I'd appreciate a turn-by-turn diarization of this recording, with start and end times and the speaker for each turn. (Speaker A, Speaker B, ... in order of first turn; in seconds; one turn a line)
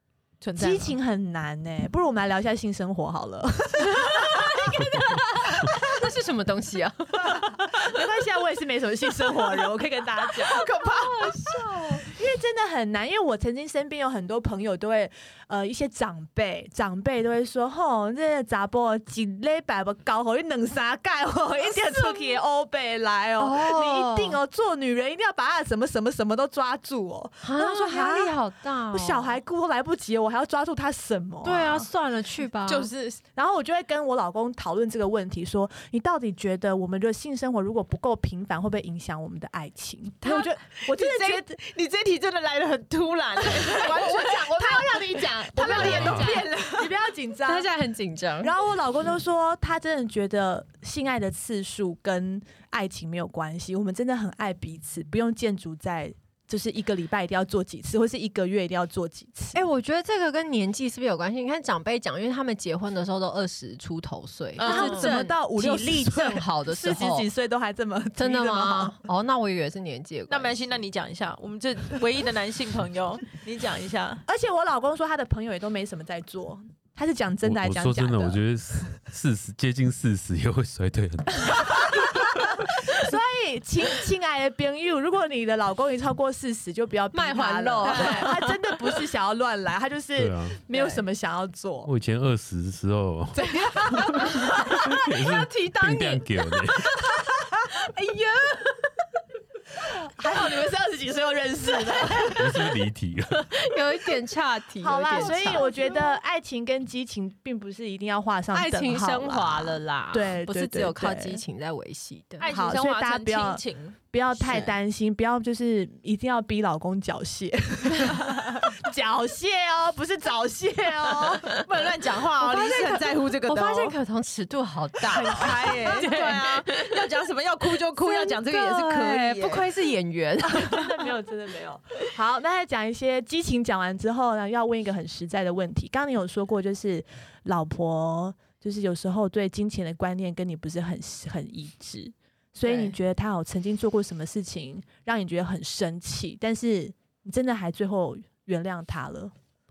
Speaker A: 0.4-0.9
Speaker B: 0.6-4.8
Speaker C: 3.8-7.5
Speaker B: 7.2-10.7
Speaker A: 10.4-11.6
Speaker C: 10.6-12.1
Speaker B: 12.0-28.3
Speaker C: 21.9-22.4
Speaker C: 23.4-24.4
Speaker C: 27.4-29.4
Speaker B: 28.9-31.9
Speaker C: 31.4-32.9
Speaker A: 32.7-33.2
Speaker B: 33.3-41.6
Speaker A: 40.2-47.1
Speaker B: 43.4-47.7
Speaker D: 45.7-46.4
Speaker C: 47.4-48.5
Speaker B: 48.4-59.6
Speaker C: 59.5-67.3
Speaker A: 64.6-65.2
Speaker B: 64.6-69.0
Speaker C: 68.1-70.8
Speaker A: 70.3-74.2
Speaker B: 74.3-78.4
Speaker D: 77.4-82.7
Speaker B: 81.6-91.9
Speaker C: 87.1-88.9
Speaker A: 87.8-88.4
Speaker D: 90.2-90.6
Speaker A: 90.7-91.0
Speaker D: 91.8-97.1
Speaker B: 93.5-94.8
Speaker C: 94.2-96.3
Speaker C: 97.7-98.9
Speaker B: 99.8-102.7
Speaker D: 102.2-103.6
Speaker C: 103.5-105.8
Speaker B: 104.8-111.4
Speaker A: 105.2-105.9
Speaker C: 108.5-112.5
Speaker A: 112.4-114.0
Speaker B: 112.5-121.5
Speaker C: 114.4-114.7
Speaker A: 121.3-124.0
Speaker C: 122.4-127.1
Speaker B: 125.1-126.1
Speaker A: 125.1-129.7
Speaker C: 128.0-131.1
Speaker B: 130.5-149.3
Speaker A: 142.6-142.9